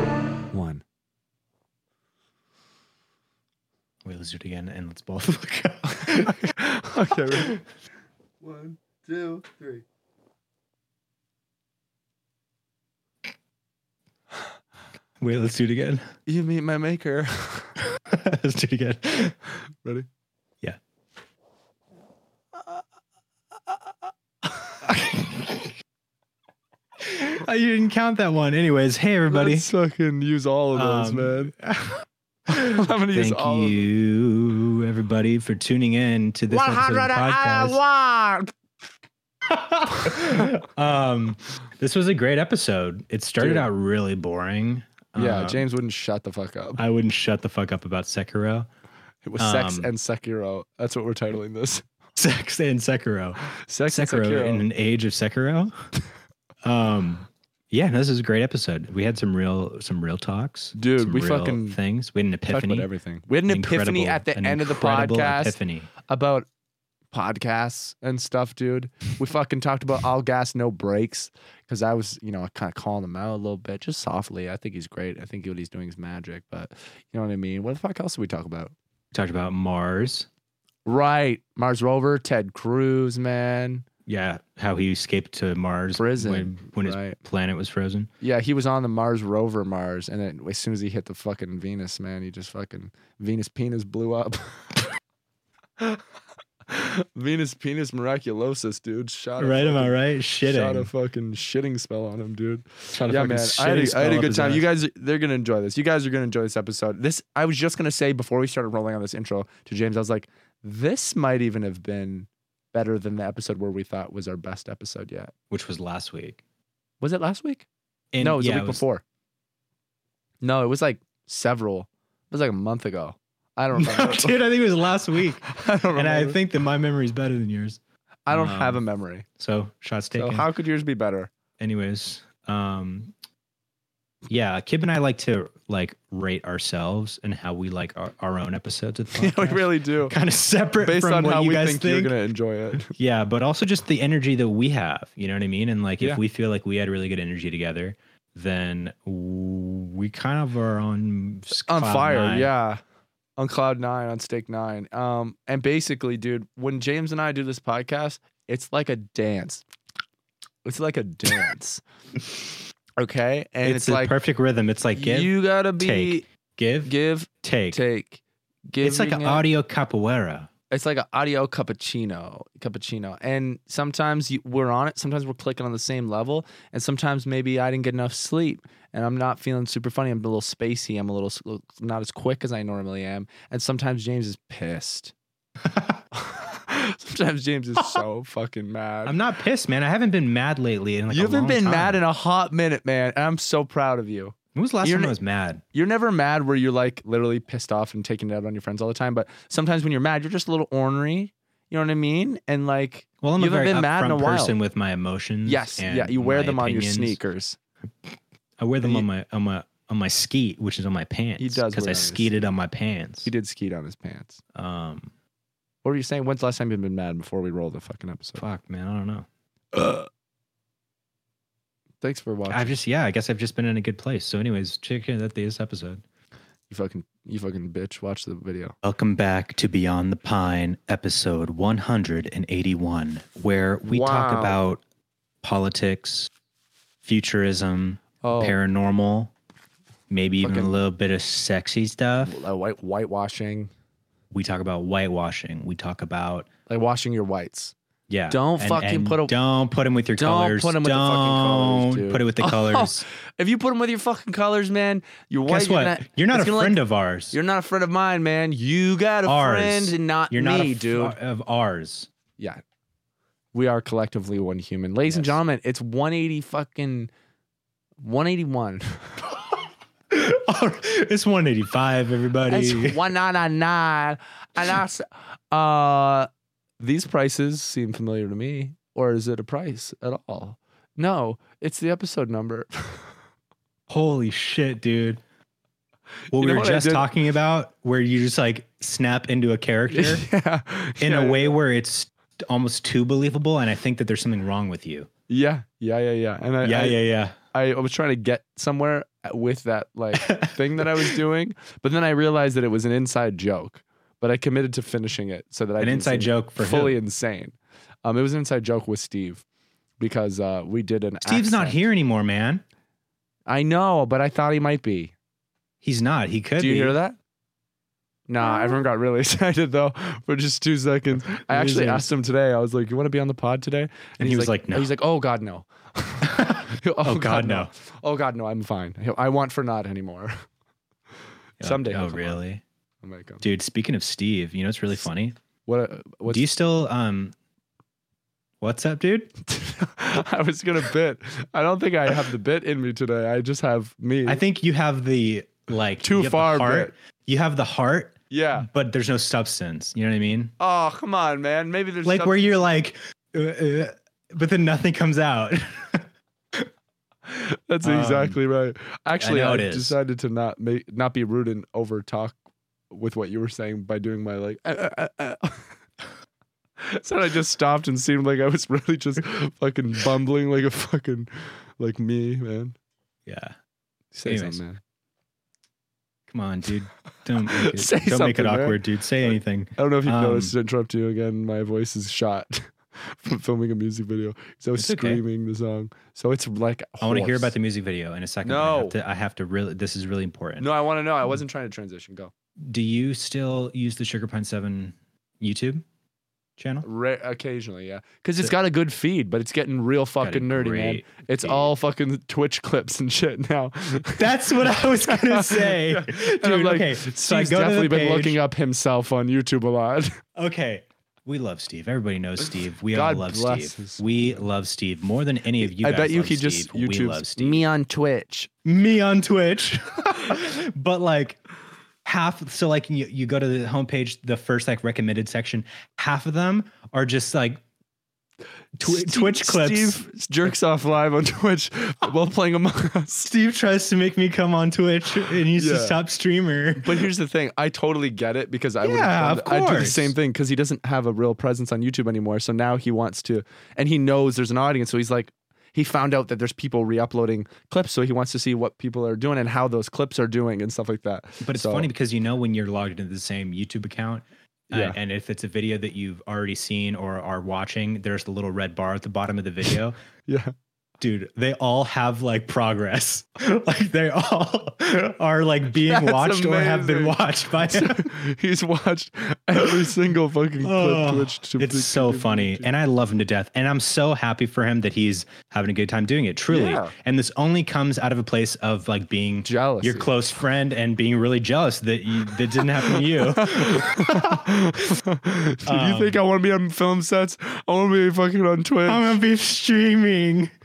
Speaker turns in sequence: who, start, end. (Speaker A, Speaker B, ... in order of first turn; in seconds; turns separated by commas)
Speaker A: 0.5-0.8, Speaker B: 4.0-6.5, Speaker A: 6.5-7.6, Speaker A: 8.4-9.8, Speaker B: 15.2-16.1, Speaker A: 16.3-17.7, Speaker B: 17.8-19.4, Speaker B: 25.0-25.7, Speaker B: 27.0-29.7, Speaker A: 29.3-31.6, Speaker B: 30.7-31.9, Speaker A: 32.5-33.9, Speaker B: 32.5-37.8, Speaker A: 36.5-38.5, Speaker B: 39.5-45.6, Speaker A: 43.4-43.7, Speaker A: 45.2-46.8, Speaker B: 46.8-48.7, Speaker A: 49.2-51.9, Speaker B: 49.4-49.9, Speaker B: 52.2-55.8, Speaker A: 53.6-54.7, Speaker B: 56.6-62.9, Speaker A: 60.8-61.8, Speaker A: 62.5-66.5, Speaker B: 63.5-65.9, Speaker A: 67.1-78.7, Speaker B: 79.1-80.3, Speaker A: 80.9-83.8, Speaker B: 84.1-88.1, Speaker A: 86.0-87.2, Speaker A: 88.2-94.9, Speaker A: 96.7-115.3, Speaker B: 99.4-100.9, Speaker B: 102.9-104.7, Speaker B: 115.5-116.4, Speaker A: 117.0-117.7, Speaker B: 118.1-118.8, Speaker A: 118.2-119.0, Speaker A: 120.4-124.4, Speaker B: 123.8-127.8, Speaker A: 125.5-126.4, Speaker A: 128.3-129.3, Speaker B: 128.3-128.8, Speaker B: 129.4-130.5, Speaker A: 130.1-131.3, Speaker B: 131.6-133.1, Speaker B: 134.3-142.1, Speaker A: 139.2-140.2, Speaker A: 140.8-142.9, Speaker B: 142.9-152.5, Speaker A: 151.6-152.8, Speaker A: 153.4-159.7, Speaker A: 160.7-164.2, Speaker B: 163.6-167.8, Speaker A: 164.9-166.2, Speaker A: 166.8-169.5, Speaker B: 168.8-170.5, Speaker A: 170.7-185.1, Speaker B: 185.7-186.0, Speaker A: 186.1-189.2, Speaker B: 189.1-192.0, Speaker A: 191.1-195.2, Speaker B: 194.6-195.6, Speaker A: 195.7-204.6, Speaker B: 203.2-207.2, Speaker A: 205.5-207.6, Speaker B: 208.1-213.3, Speaker A: 208.8-209.1, Speaker A: 211.4-212.3, Speaker A: 213.2-214.4, Speaker B: 214.6-215.1, Speaker A: 215.8-218.4, Speaker B: 218.4-219.3, Speaker A: 219.7-220.1, Speaker A: 222.0-222.8, Speaker B: 222.5-226.0, Speaker A: 226.7-228.8, Speaker B: 228.8-234.8, Speaker A: 233.9-234.6, Speaker B: 235.4-236.3, Speaker B: 237.0-239.3, Speaker A: 238.2-238.6, Speaker B: 240.1-242.3, Speaker A: 240.4-240.8, Speaker A: 242.2-243.7, Speaker B: 244.3-246.5, Speaker A: 246.7-247.7, Speaker B: 248.1-253.0, Speaker A: 248.3-249.3, Speaker A: 250.2-256.8, Speaker B: 255.5-257.4, Speaker A: 257.3-261.2, Speaker B: 259.2-262.1, Speaker A: 263.5-267.1, Speaker B: 265.1-265.4, Speaker A: 268.0-269.1, Speaker B: 270.1-273.0, Speaker A: 272.5-276.3, Speaker A: 276.8-283.1, Speaker B: 283.9-285.2, Speaker B: 286.3-290.3, Speaker A: 286.3-287.1, Speaker A: 289.9-291.6, Speaker B: 291.0-295.1, Speaker A: 295.3-297.0, Speaker B: 296.6-297.4, Speaker A: 297.5-309.4, Speaker B: 300.1-301.2, Speaker B: 305.8-307.0, Speaker A: 310.0-311.8, Speaker B: 311.2-312.6, Speaker A: 313.5-315.1, Speaker B: 315.8-317.0, Speaker A: 316.6-317.2, Speaker A: 318.3-330.3, Speaker B: 321.1-322.1, Speaker B: 324.2-324.9, Speaker B: 326.2-327.7, Speaker B: 331.6-332.6, Speaker A: 331.6-332.4, Speaker A: 333.0-333.4, Speaker B: 333.4-335.4, Speaker A: 335.7-336.4, Speaker B: 336.3-337.3, Speaker B: 338.6-339.3, Speaker A: 339.5-344.4, Speaker B: 344.3-350.5, Speaker A: 346.0-346.9, Speaker A: 348.3-348.7, Speaker A: 350.6-352.4, Speaker B: 352.0-356.1, Speaker A: 357.3-362.4, Speaker B: 357.8-358.4, Speaker B: 359.2-360.0, Speaker A: 362.9-365.6, Speaker A: 366.8-372.8, Speaker B: 373.3-373.6, Speaker A: 374.1-374.8, Speaker B: 374.2-374.6, Speaker B: 376.3-380.5, Speaker A: 377.5-378.8, Speaker A: 379.8-387.6, Speaker B: 384.8-385.2, Speaker B: 387.0-390.7, Speaker A: 388.4-389.0, Speaker A: 390.6-392.3, Speaker B: 392.6-395.8, Speaker B: 396.6-396.9, Speaker A: 396.8-410.2, Speaker B: 400.2-401.7, Speaker B: 404.2-408.4, Speaker B: 410.4-417.6, Speaker A: 412.9-414.4, Speaker A: 415.6-418.5, Speaker B: 418.6-421.4, Speaker B: 422.1-427.6, Speaker B: 428.8-430.5, Speaker A: 428.8-433.3, Speaker B: 433.2-437.1, Speaker A: 435.5-436.0, Speaker A: 436.8-451.9, Speaker B: 438.8-440.1, Speaker B: 451.4-460.0, Speaker A: 454.7-455.0, Speaker A: 460.3-460.5, Speaker B: 461.0-468.1, Speaker A: 465.9-472.6, Speaker B: 469.6-469.9, Speaker B: 470.6-484.5, Speaker A: 476.5-476.9, Speaker A: 479.4-480.1, Speaker A: 483.4-489.2, Speaker B: 485.7-486.2, Speaker B: 488.9-490.5